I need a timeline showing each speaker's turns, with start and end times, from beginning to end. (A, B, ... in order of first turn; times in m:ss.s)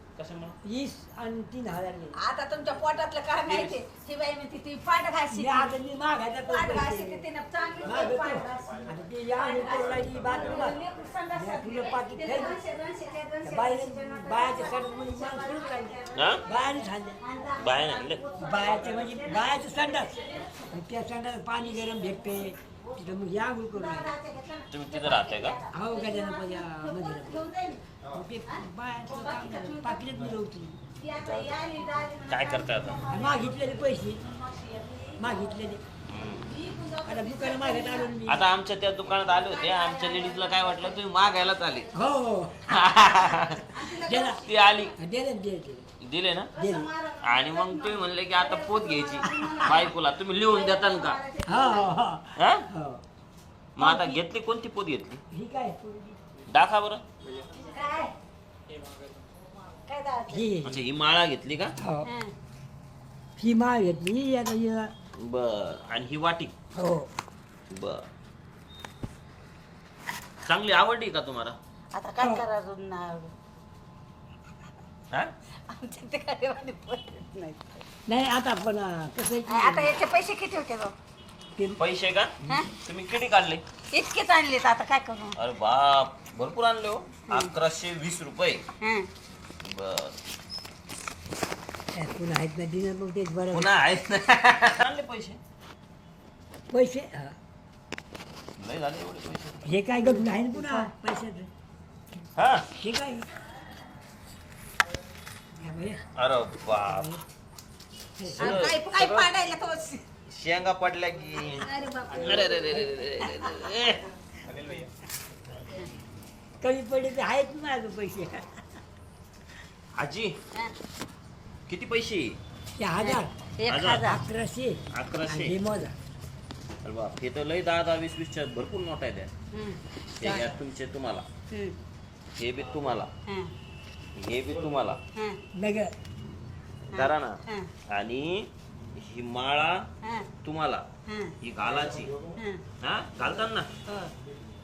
0:00.2-0:00.6 A
0:00.6-0:02.2 B
0:02.2-0:05.7 C
0:03.5-0:03.8 A
0:05.3-0:07.3 B
0:06.5-0:16.5 C
0:07.8-0:10.8 B
0:11.3-0:12.6 B
0:13.4-0:17.2 B
0:16.1-0:16.4 A
0:17.2-0:20.7 C
0:17.6-0:18.2 A
0:18.4-0:24.1 B
0:22.7-0:23.0 C
0:23.7-0:27.9 C
0:24.7-0:25.6 A
0:25.7-0:27.4 B
0:28.1-0:30.8 B
0:28.5-0:30.0 C
0:31.0-0:35.5 C
0:31.2-0:31.5 A
0:32.3-0:33.0 A
0:33.1-0:34.2 B
0:35.2-0:35.8 B
0:36.1-0:36.5 A
0:36.4-0:38.2 C
0:37.0-0:38.4 B
0:38.3-0:41.9 A
0:39.4-0:40.6 C
0:41.9-0:42.8 B
0:42.7-0:43.8 A
0:43.7-0:44.5 C
0:43.9-0:44.4 B
0:44.4-0:44.9 A
0:45.0-0:45.8 B
0:46.0-0:46.5 A
0:46.6-0:52.0 C
0:46.6-0:46.9 B
0:47.2-0:51.2 A
0:51.4-0:53.0 B
0:52.4-0:52.7 A
0:53.8-0:55.2 A
0:53.8-0:54.2 B
0:55.3-0:56.2 B
0:56.5-0:57.0 A
0:57.6-0:58.1 C
0:59.9-1:00.5 C
1:00.3-1:00.8 B
1:00.6-1:01.8 A
1:01.8-1:02.1 B
1:02.0-1:02.3 C
1:03.4-1:04.9 B
1:05.2-1:06.5 A
1:06.8-1:07.1 B
1:07.7-1:08.1 A
1:10.4-1:11.6 A
1:11.9-1:13.3 C
1:15.7-1:17.8 C
1:18.1-1:20.0 B
1:19.5-1:20.9 C
1:21.8-1:23.6 A
1:23.9-1:25.4 C
1:25.4-1:28.6 A
1:27.3-1:27.5 C
1:28.8-1:29.1 C
1:29.6-1:30.2 A
1:31.9-1:33.7 B
1:33.5-1:35.4 A
1:36.7-1:37.4 B
1:38.6-1:39.6 A
1:39.6-1:41.5 B
1:40.0-1:40.9 C
1:42.4-1:42.7 A
1:42.8-1:43.3 B
1:45.6-1:46.0 B
1:46.2-1:47.1 A
1:46.9-1:47.2 B
1:48.2-1:48.6 B
1:48.4-1:49.3 A
1:48.4-1:50.0 C
1:50.3-1:54.0 A
1:51.6-1:53.6 C
1:56.6-1:58.5 B
2:00.0-2:00.4 A
2:01.7-2:02.4 A
2:02.8-2:03.3 B
2:03.0-2:04.2 C
2:03.7-2:04.0 A
2:03.9-2:05.9 B
2:04.9-2:05.6 A
2:06.8-2:09.3 A
2:09.5-2:09.8 C
2:10.2-2:11.3 A
2:10.2-2:10.6 B
2:11.5-2:11.8 C
2:12.4-2:13.1 A
2:14.2-2:15.0 A
2:15.6-2:15.9 B
2:16.9-2:17.7 C
2:16.9-2:19.8 A
2:20.4-2:20.8 A
2:21.1-2:21.3 C
2:21.4-2:22.2 A
2:22.4-2:22.6 C
2:22.8-2:23.7 A